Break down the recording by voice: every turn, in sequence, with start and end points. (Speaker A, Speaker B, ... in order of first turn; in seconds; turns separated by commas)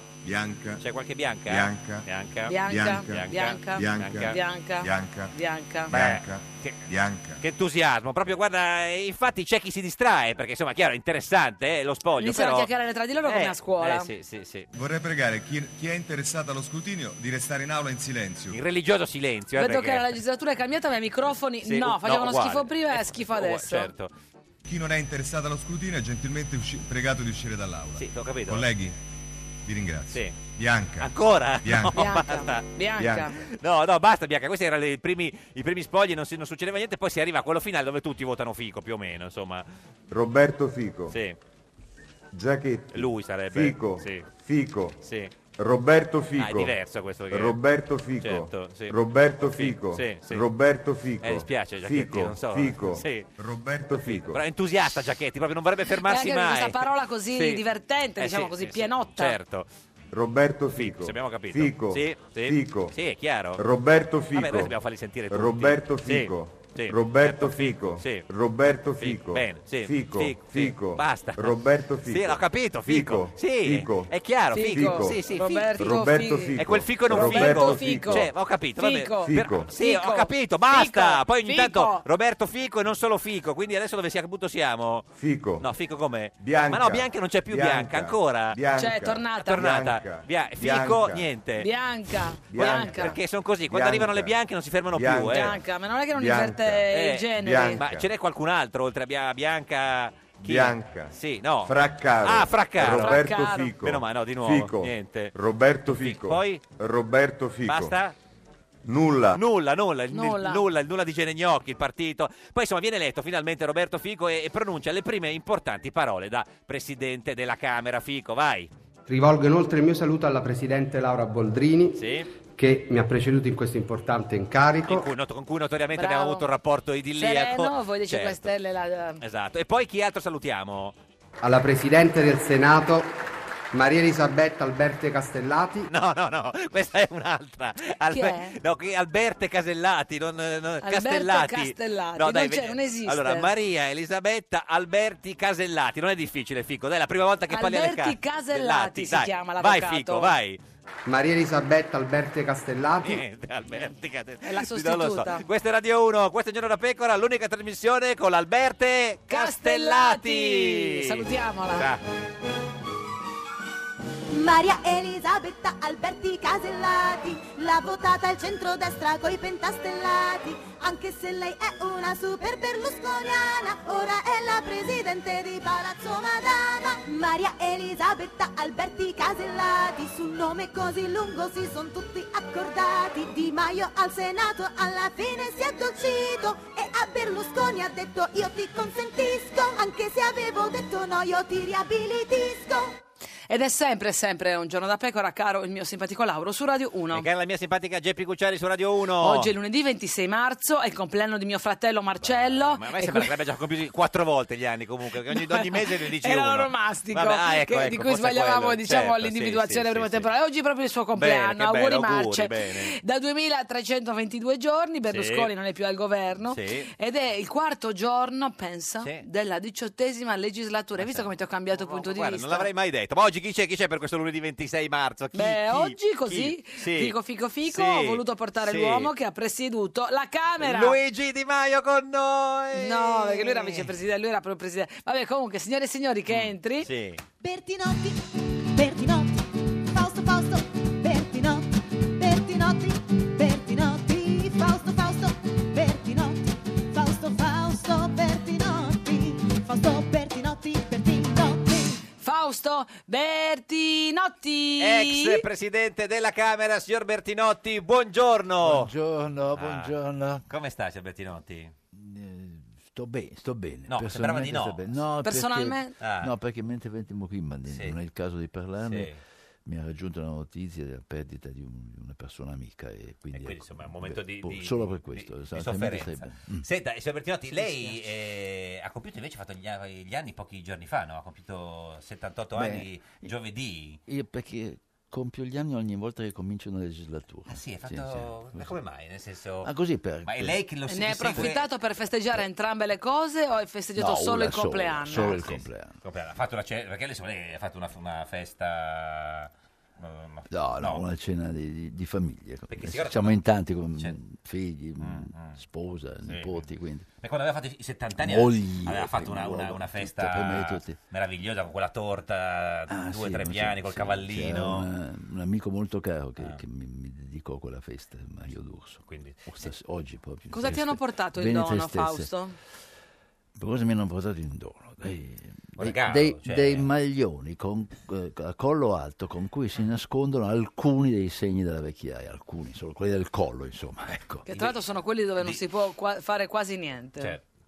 Speaker A: 0.2-0.8, Speaker B: 0.8-4.4, Speaker A: 1.5-2.1, Speaker C: 2.5-5.9, Speaker A: 2.7-5.3, Speaker B: 5.9-6.8, Speaker A: 5.9-7.4, Speaker B: 7.4-12.7, Speaker C: 12.2-14.1, Speaker B: 13.2-14.7, Speaker A: 14.7-18.6, Speaker B: 18.5-20.2, Speaker C: 19.6-23.9, Speaker B: 21.6-24.1, Speaker A: 24.6-29.0, Speaker B: 28.0-28.7, Speaker A: 29.6-31.1, Speaker B: 30.1-30.4, Speaker B: 31.0-32.7, Speaker A: 31.6-32.2, Speaker C: 31.9-33.4, Speaker A: 33.0-33.3, Speaker B: 33.3-39.6, Speaker A: 40.1-41.2, Speaker B: 41.1-41.4, Speaker A: 42.3-45.0, Speaker B: 42.9-44.3, Speaker B: 45.0-45.3, Speaker A: 45.6-46.7, Speaker B: 46.4-47.6, Speaker A: 47.3-54.4, Speaker B: 48.2-50.5, Speaker B: 51.2-53.3, Speaker B: 54.0-57.6, Speaker C: 56.0-59.4, Speaker B: 58.2-59.7, Speaker A: 60.1-63.0, Speaker B: 60.8-63.6, Speaker A: 63.6-64.7, Speaker B: 64.3-68.2, Speaker A: 65.3-74.1, Speaker B: 69.0-75.8, Speaker C: 74.5-82.0, Speaker A: 74.7-75.2, Speaker A: 75.8-78.3, Speaker B: 76.6-85.1, Speaker A: 79.2-79.7, Speaker A: 85.2-85.7, Speaker B: 85.6-88.6, Speaker A: 86.4-91.3, Speaker C: 88.8-89.7, Speaker B: 89.5-91.7, Speaker C: 91.6-93.2, Speaker A: 92.5-94.4, Speaker B: 92.6-95.6, Speaker A: 94.9-95.6, Speaker C: 95.3-97.8, Speaker A: 96.1-98.1, Speaker B: 96.9-105.3, Speaker A: 100.4-108.0, Speaker C: 102.9-103.7, Speaker B: 105.9-106.6, Speaker B: 107.7-108.2, Speaker A: 108.9-109.4, Speaker B: 109.3-118.7, Speaker C: 110.1-110.6, Speaker D: 119.1-122.0, Speaker B: 122.0-122.3, Speaker D: 122.6-125.1, Speaker B: 124.9-128.5, Speaker C: 126.0-126.4, Speaker C: 127.2-129.2, Speaker B: 129.2-130.9, Speaker D: 131.4-133.1, Speaker D: 133.7-135.9, Speaker B: 135.9-150.6, Speaker C: 138.1-138.6, Speaker C: 140.8-143.5, Speaker C: 147.5-150.3, Speaker D: 151.1-153.2, Speaker B: 153.0-162.0, Speaker C: 154.4-155.4, Speaker C: 159.3-161.9, Speaker E: 164.3-193.0, Speaker C: 193.5-197.3, Speaker B: 197.1-199.5, Speaker C: 199.2-203.3, Speaker B: 202.2-210.3, Speaker C: 205.3-222.7, Speaker B: 211.2-213.0, Speaker B: 215.1-215.5, Speaker B: 216.5-216.9, Speaker B: 221.0-229.1, Speaker C: 225.3-231.0, Speaker B: 230.6-233.9, Speaker C: 232.7-236.9, Speaker B: 236.3-237.2, Speaker E: 237.4-252.0, Speaker C: 252.2-255.4, Speaker B: 254.8-258.9, Speaker F: 258.6-260.4, Speaker B: 259.5-259.9, Speaker B: 260.5-261.7, Speaker F: 261.9-269.1, Speaker B: 263.9-264.9, Speaker C: 265.2-265.9, Speaker B: 266.0-266.3, Speaker B: 267.7-268.0, Speaker B: 268.8-269.1, Speaker F: 269.7-276.7, Speaker B: 273.4-284.0, Speaker F: 277.6-278.0, Speaker F: 282.5-283.3, Speaker F: 284.1-288.8, Speaker B: 287.5-289.7, Speaker F: 289.6-290.6, Speaker B: 290.2-291.6, Speaker C: 290.9-295.4, Speaker F: 294.0-296.0, Speaker B: 295.1-301.0, Speaker F: 300.5-307.1, Speaker B: 302.7-303.4, Speaker B: 305.0-305.6, Speaker B: 306.2-306.7, Speaker B: 307.2-314.9, Speaker F: 308.2-311.0, Speaker F: 312.9-322.3, Speaker B: 319.1-319.5, Speaker C: 320.5-322.6, Speaker F: 323.6-334.5, Speaker B: 325.8-326.9, Speaker C: 334.5-337.4, Speaker B: 334.5-334.8